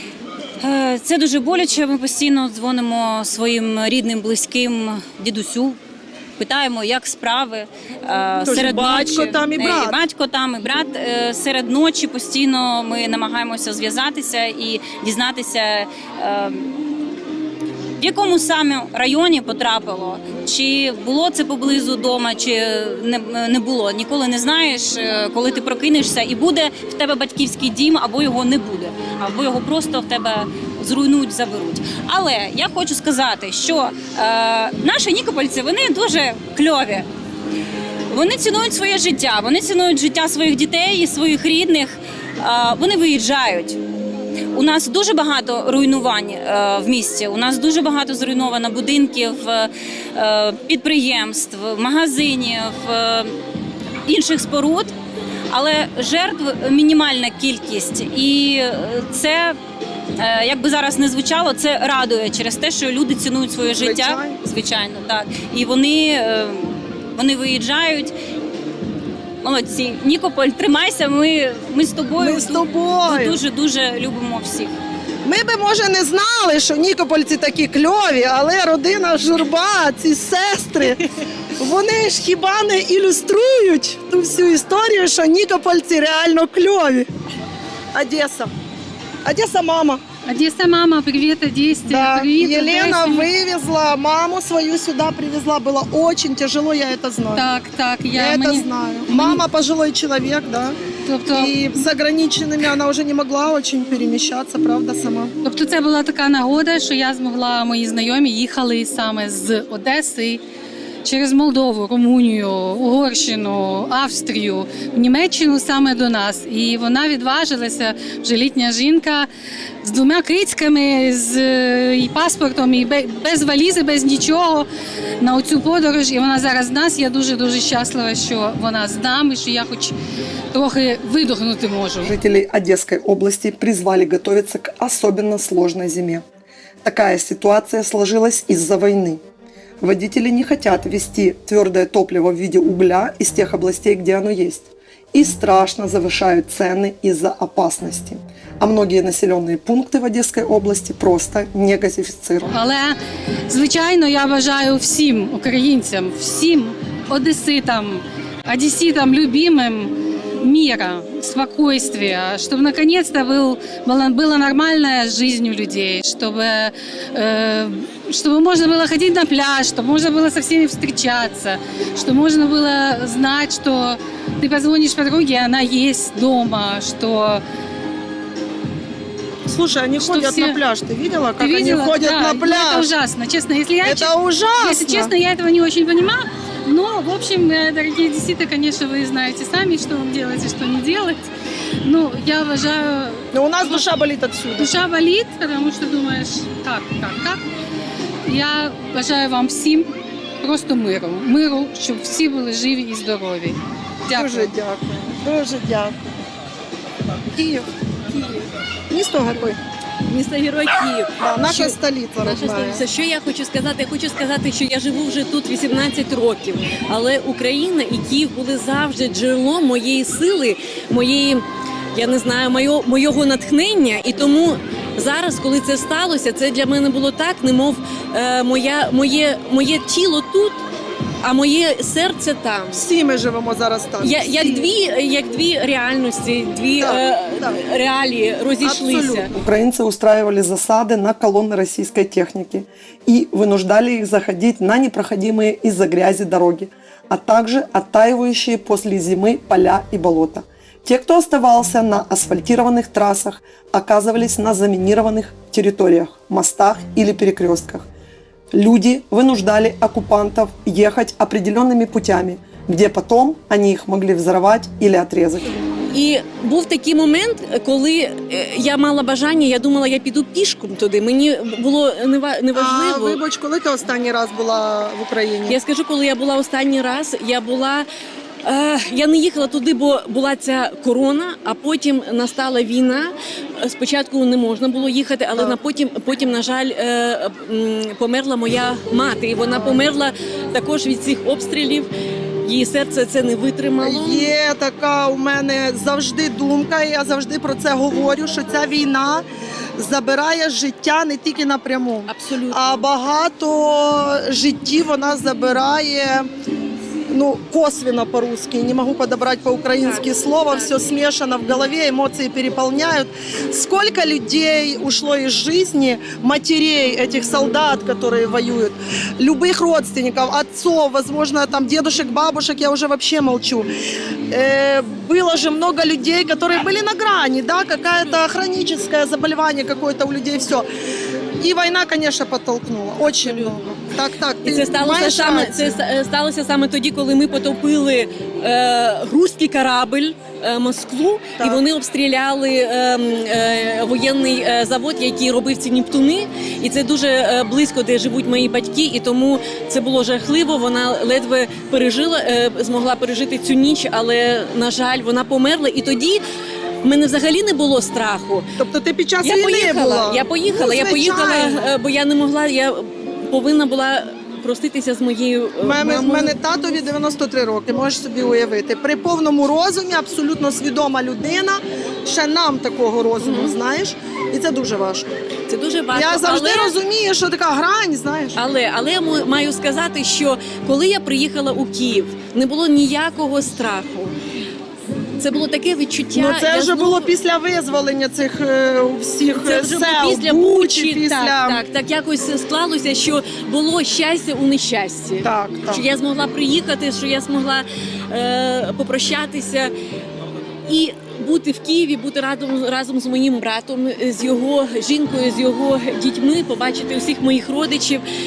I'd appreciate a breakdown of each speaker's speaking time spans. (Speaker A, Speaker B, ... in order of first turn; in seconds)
Speaker A: 0.6-5.8, 6.4-16.7, 18.0-37.1, 38.1-43.8, 44.5-53.3, 54.0-54.9, 55.5-59.6, 60.2-68.1, 69.4-74.7
Speaker B: 8.4-10.0, 63.8-64.3, 72.2-73.4, 75.2-81.0, 81.6-87.1, 87.9-88.5, 89.2-90.0, 91.8-97.4, 98.1-100.8, 101.3-105.3, 179.5-182.8, 183.8-185.1, 193.3-194.7, 204.1-206.0, 207.3-207.7, 208.9-209.6, 211.2-212.8, 232.7-234.7, 236.8-237.6, 238.6-239.3, 272.5-275.6, 289.5-289.8, 293.8-299.2, 299.8-306.3, 307.1-323.7, 324.3-330.7, 331.4-335.8, 358.6-361.6, 365.6-375.1, 375.9-378.4, 386.1-391.6, 395.2-395.9
Speaker C: 90.2-93.3, 97.3-99.4, 101.0-101.5, 105.4-110.4, 111.0-119.3, 119.8-124.7, 125.2-129.9, 130.5-132.2, 152.5-153.0, 153.5-177.4, 180.0-180.6, 181.4-191.3, 191.8-193.8, 194.6-197.4, 198.2-204.5
Speaker D: 132.0-136.2, 136.8-139.2, 139.8-152.5, 239.3-257.9, 258.5-265.5
Speaker E: 208.1-208.5, 210.1-230.6, 231.2-232.8, 234.0-239.3, 265.9-273.2, 275.4-277.9, 278.4-291.9, 292.4-294.3, 302.1-302.9, 309.8-310.9, 333.2-333.5, 334.4-356.2, 356.8-358.5, 359.2-366.4, 373.2-373.6, 375.5-376.8, 378.4-384.1, 385.2-387.1, 389.3-399.7, 400.7-408.0